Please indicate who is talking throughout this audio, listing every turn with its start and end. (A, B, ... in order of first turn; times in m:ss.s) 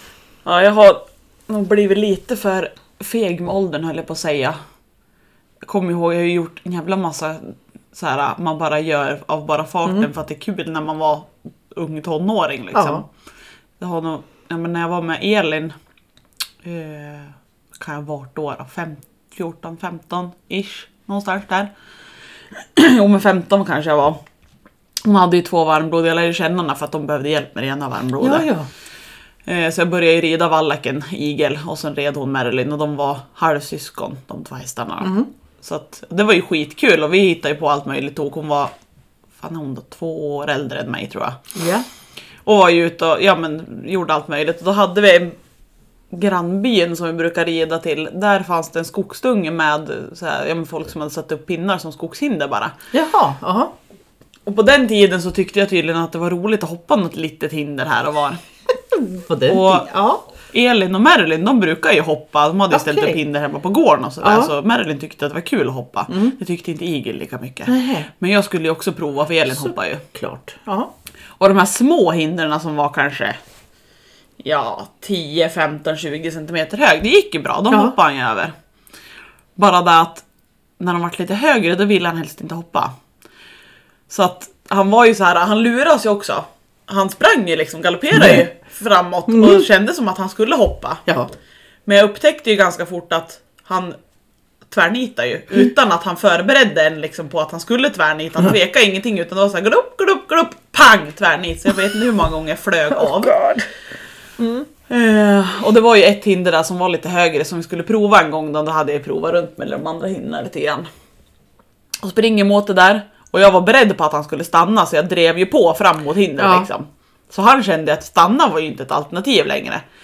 0:00.4-0:04.6 A
0:05.6-0:13.1 A
0:12.7-0:13.0 B
0:13.8-0:15.8 A
0:16.6-0:21.7 A
0:22.8-0:24.2 A
0:25.0-0:28.5 A
0:28.2-0:28.7 B
0:29.5-0:38.7 A
0:35.0-0:35.3 B
0:39.4-0:41.4 A
0:41.6-0:41.8 B
0:42.5-0:45.4 A
0:46.1-0:52.8 A
0:52.9-0:53.7 B
0:54.5-0:58.4 A
0:59.2-1:00.2 B
0:59.4-0:59.9 A
1:00.5-1:10.0 A
1:02.7-1:03.2 B
1:04.2-1:04.5 B
1:06.1-1:06.4 B
1:07.7-1:08.1 B
1:09.5-1:10.9 B
1:11.4-1:13.4 A
1:14.4-1:18.5 A
1:17.7-1:18.0 B
1:19.6-1:20.3 A
1:20.8-1:22.9 A
1:24.1-1:31.0 A
1:28.1-1:28.4 B
1:29.3-1:29.7 B
1:31.1-1:31.3 B
1:31.9-1:34.0 A
1:34.7-1:43.4 A
1:42.9-1:43.7 B
1:44.4-1:44.7 B
1:44.9-1:50.9 A
1:52.0-1:59.8 A
1:56.4-1:56.7 B